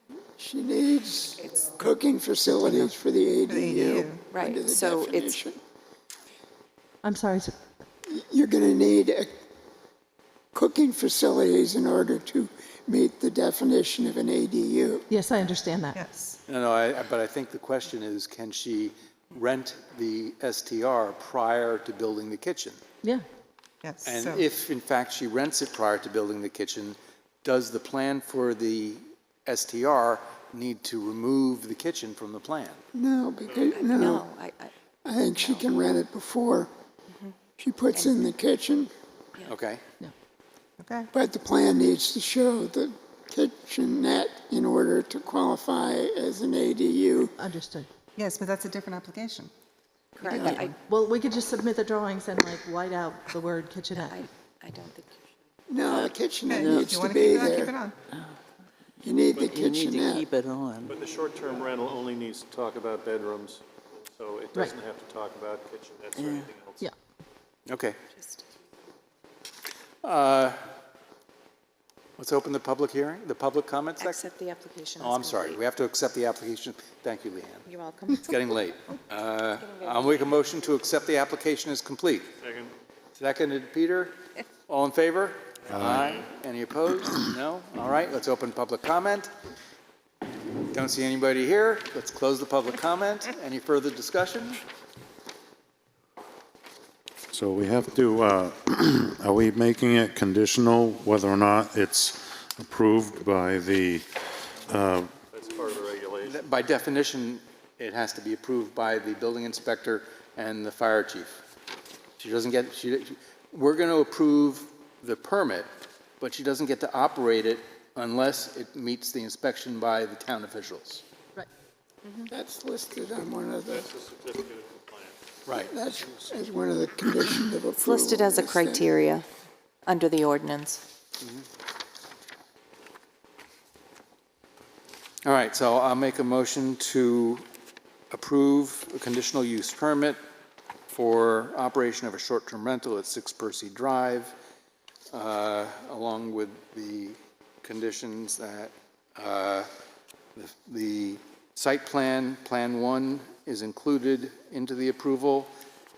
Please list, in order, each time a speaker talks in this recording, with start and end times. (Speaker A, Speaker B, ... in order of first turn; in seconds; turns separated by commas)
Speaker A: 0.4-5.6, Speaker B: 1.4-1.8, Speaker C: 2.5-2.9, Speaker C: 3.5-4.2, Speaker B: 4.3-5.4, Speaker D: 7.0-7.5, Speaker A: 8.1-9.3, Speaker A: 10.5-15.1, Speaker D: 15.1-16.0, Speaker C: 15.9-16.4, Speaker E: 16.5-22.8, Speaker C: 23.8-24.4, Speaker E: 24.1-32.8, Speaker A: 32.9-34.3, Speaker B: 33.7-34.7, Speaker A: 35.0-36.7, Speaker B: 35.4-35.6, Speaker B: 37.1-37.4, Speaker A: 37.6-38.9, Speaker B: 38.0-38.2, Speaker E: 39.4-39.8, Speaker C: 40.8-41.1, Speaker A: 41.1-47.4, Speaker D: 47.4-47.9, Speaker C: 48.2-49.5, Speaker B: 50.2-50.8, Speaker C: 50.3-50.7, Speaker D: 50.3-54.2, Speaker B: 53.9-55.2, Speaker A: 55.7-57.7, Speaker C: 56.5-58.0, Speaker F: 56.6-57.3, Speaker A: 59.0-60.3, Speaker F: 59.4-61.0, Speaker G: 60.9-66.9, Speaker F: 66.2-66.5, Speaker E: 67.7-68.0, Speaker B: 68.2-68.4, Speaker E: 70.0-70.6, Speaker E: 72.2-74.2, Speaker B: 74.0-75.6, Speaker E: 75.0-77.7, Speaker B: 77.7-78.4, Speaker E: 78.2-82.3, Speaker B: 79.8-80.1, Speaker G: 82.4-82.7, Speaker E: 83.2-84.2, Speaker E: 84.7-89.3, Speaker G: 85.9-86.2, Speaker E: 90.7-94.6, Speaker H: 97.3-104.1, Speaker H: 104.7-105.1, Speaker G: 105.3-106.5, Speaker E: 106.2-111.4, Speaker E: 112.2-115.7, Speaker E: 116.2-121.0, Speaker A: 122.3-123.9, Speaker G: 123.7-125.2, Speaker E: 125.5-125.7, Speaker A: 125.7-128.9, Speaker B: 127.8-129.2, Speaker B: 129.9-130.8, Speaker E: 135.2-137.4, Speaker E: 138.1-140.2, Speaker E: 140.9-144.3, Speaker E: 145.1-149.7, Speaker E: 150.4-155.5